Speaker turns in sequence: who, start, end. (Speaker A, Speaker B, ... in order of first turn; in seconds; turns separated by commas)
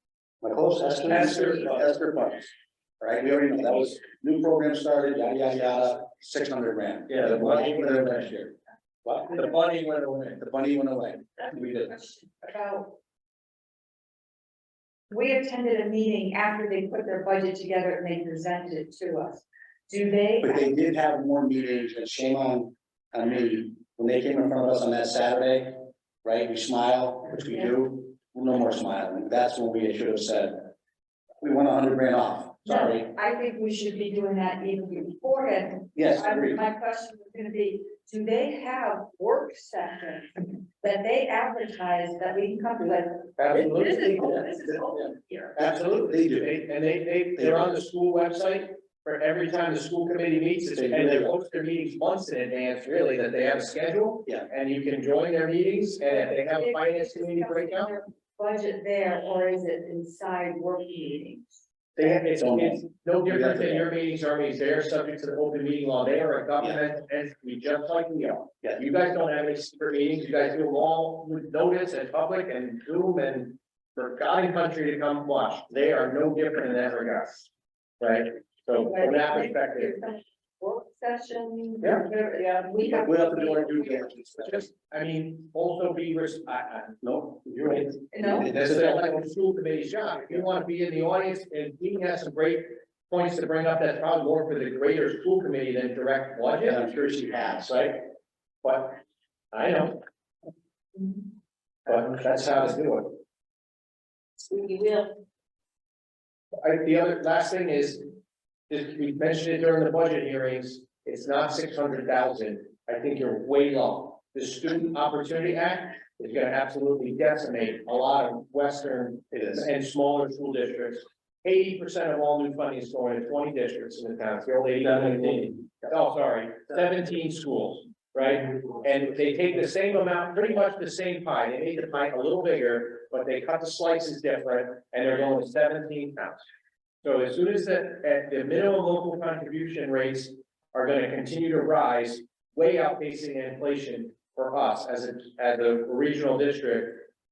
Speaker A: 0.4-2.5, Speaker B: 1.0-1.9, Speaker A: 3.0-9.5, Speaker B: 7.1-8.3, Speaker B: 9.3-10.4, Speaker A: 10.3-11.9, Speaker C: 11.7-12.9, Speaker C: 15.1-20.7, Speaker A: 20.4-30.7, Speaker A: 31.4-33.1, Speaker C: 32.6-45.5, Speaker A: 35.9-36.6, Speaker B: 43.4-44.5, Speaker A: 43.5-46.6, Speaker B: 45.5-57.9, Speaker A: 47.4-47.7, Speaker A: 50.7-51.3, Speaker C: 56.0-61.5, Speaker B: 62.0-79.9, Speaker A: 62.3-63.9, Speaker C: 78.7-84.3, Speaker A: 82.8-84.7, Speaker B: 84.4-87.0, Speaker A: 87.0-89.1, Speaker B: 87.7-96.8, Speaker C: 88.1-88.5, Speaker A: 96.6-97.8, Speaker B: 97.7-98.0, Speaker B: 98.6-99.0, Speaker B: 99.5-100.0, Speaker B: 101.8-103.1, Speaker B: 106.6-108.1, Speaker B: 108.7-136.4, Speaker A: 119.3-119.7, Speaker B: 137.0-147.1